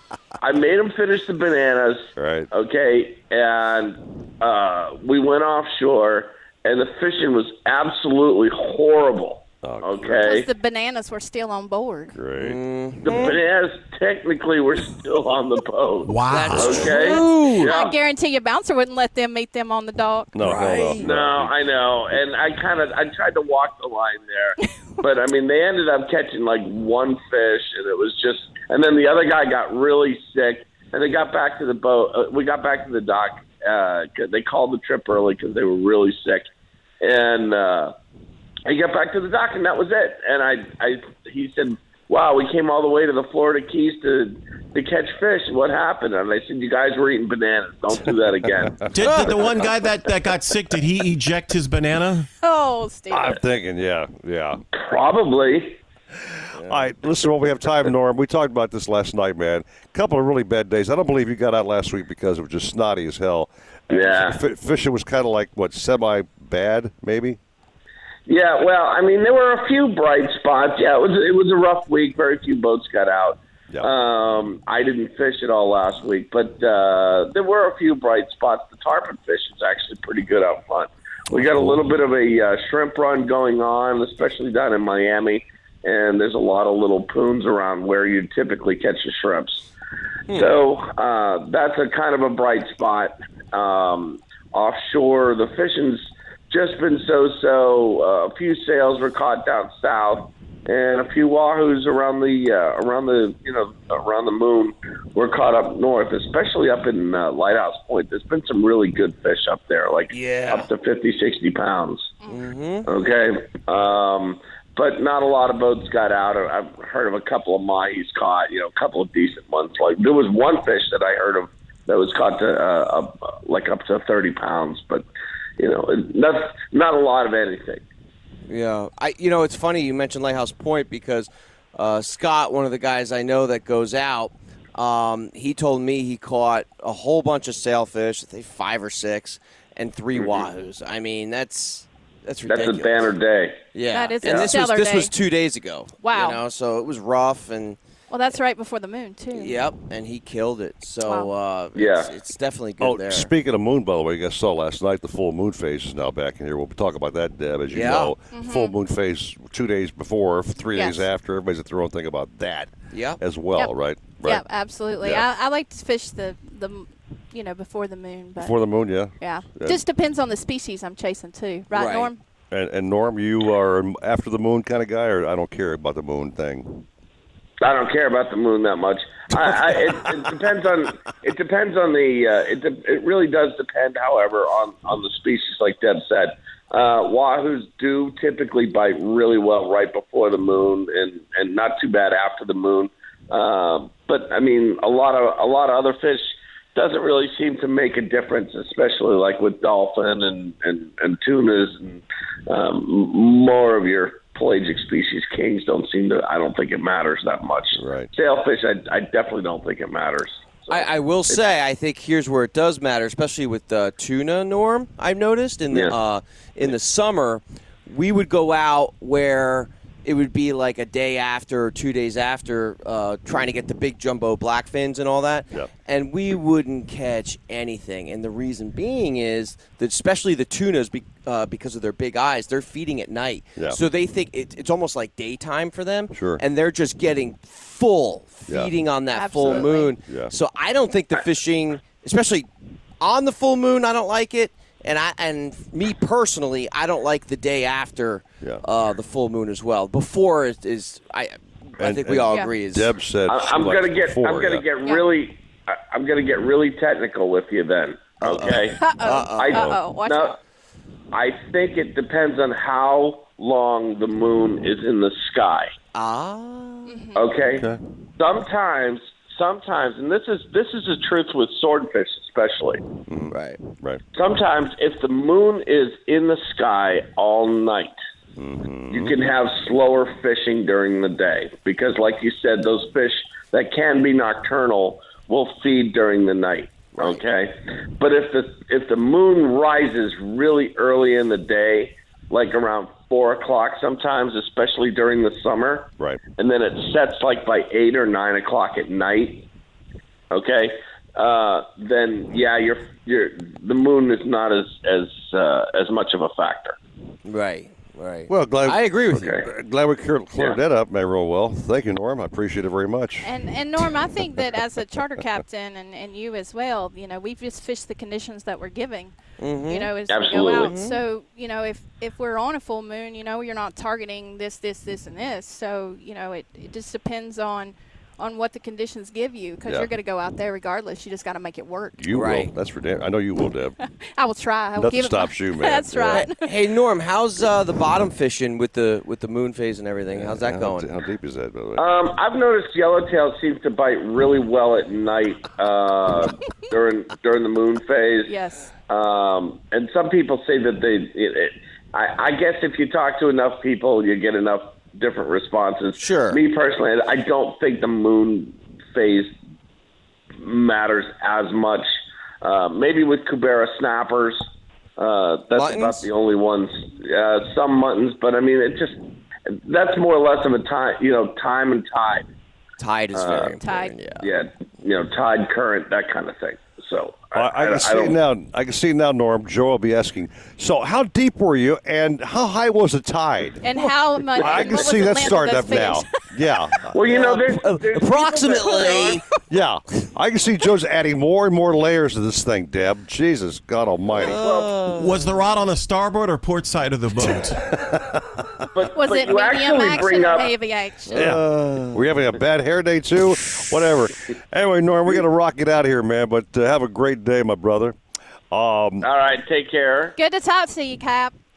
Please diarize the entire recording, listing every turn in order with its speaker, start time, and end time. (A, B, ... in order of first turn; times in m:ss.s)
0:00.4-0:10.5 A
0:02.2-0:02.5 B
0:09.6-0:10.2 B
0:10.0-0:12.1 C
0:12.1-0:12.6 B
0:12.4-0:13.4 D
0:13.0-0:17.9 A
0:16.0-0:16.8 E
0:16.3-0:17.8 D
0:16.5-0:17.0 B
0:17.0-0:20.3 C
0:20.3-0:21.7 B
0:20.4-0:21.0 D
0:21.0-0:36.4 A
0:37.0-0:37.9 A
0:38.6-0:48.8 A
0:48.5-0:49.2 B
0:48.9-0:52.3 E
0:52.4-0:53.4 C
0:53.1-0:54.6 B
0:54.7-0:55.8 A
0:56.6-0:56.9 D
0:56.6-1:07.4 B
1:03.9-1:04.4 A
1:08.3-1:29.6 A
1:21.3-1:21.8 B
1:30.3-1:30.6 D
1:30.3-1:52.1 A
1:52.3-1:52.9 D
1:52.8-2:05.1 A
2:05.6-2:07.8 A
2:08.5-2:23.0 D
2:20.1-2:20.5 A
2:22.5-2:23.6 A
2:23.7-2:27.8 D
2:23.9-2:25.1 C
2:24.2-2:24.5 A
2:26.0-2:26.4 C
2:28.1-2:29.6 C
2:29.3-2:33.3 D
2:31.0-2:31.3 C
2:31.8-2:32.1 A
2:32.8-2:44.4 B
2:37.7-2:38.1 D
2:38.3-2:38.8 C
2:40.7-2:41.0 C
2:42.9-2:43.2 D
2:43.6-2:48.6 C
2:45.0-2:45.2 B
2:48.4-2:49.8 B
2:49.2-2:52.2 C
2:51.7-2:52.1 D
2:52.5-2:56.8 B
2:57.6-3:31.4 A
3:27.7-3:28.1 B
3:30.7-4:02.5 D
3:35.7-3:35.9 A
3:56.1-3:56.4 B
3:58.5-3:58.7 B
3:59.1-4:00.0 C
3:59.4-4:00.3 B
4:03.0-4:12.9 D
4:11.8-4:14.7 B
4:12.3-4:12.5 C
4:13.3-4:18.8 A
4:18.2-4:19.6 D
4:18.7-4:20.4 C
4:19.3-4:20.4 A
4:19.5-4:19.8 B
4:21.1-4:25.7 A
4:25.9-4:27.0 D
4:26.8-4:27.3 C
4:27.2-4:32.8 A
4:27.6-4:27.8 B
4:33.1-4:34.0 B
4:33.3-4:33.6 D
4:34.1-4:38.0 A
4:38.4-4:39.1 B
4:38.9-4:59.4 A
5:00.3-5:06.8 A
5:07.2-5:09.3 D
5:08.3-5:13.3 B
5:09.1-5:09.4 A
5:13.2-5:19.1 C
5:19.4-5:19.9 D
5:19.7-5:32.0 C
5:20.1-5:20.8 A
5:20.5-5:21.0 D
5:32.0-5:33.8 B
5:32.1-5:32.5 D
5:34.2-5:36.5 C
5:34.8-5:36.3 B
5:36.1-5:40.9 D
5:40.1-5:41.9 B
5:41.8-5:48.3 A
5:48.2-5:48.7 C
5:48.9-5:59.3 A
5:56.0-5:56.4 D
6:00.4-6:01.9 A
6:02.4-6:04.4 A
6:05.0-6:09.0 A
6:05.5-6:06.1 D
6:09.6-6:12.2 A
6:12.8-6:14.3 D
6:13.1-6:13.6 A
6:13.6-6:14.0 C
6:14.2-6:18.2 A
6:17.3-6:23.6 B
6:23.6-6:26.1 C
6:24.4-6:26.9 B
6:26.9-6:29.2 A
6:27.0-6:29.2 D
6:29.5-6:34.4 B
6:34.1-6:35.1 D
6:34.2-6:34.8 A
6:34.8-6:37.6 E
6:37.8-6:38.2 B
6:38.7-6:40.6 A
6:38.9-6:41.3 C
6:41.1-6:41.8 D
6:41.1-6:48.0 B
6:48.5-6:49.1 B
6:49.0-6:50.1 A
6:50.2-6:51.3 C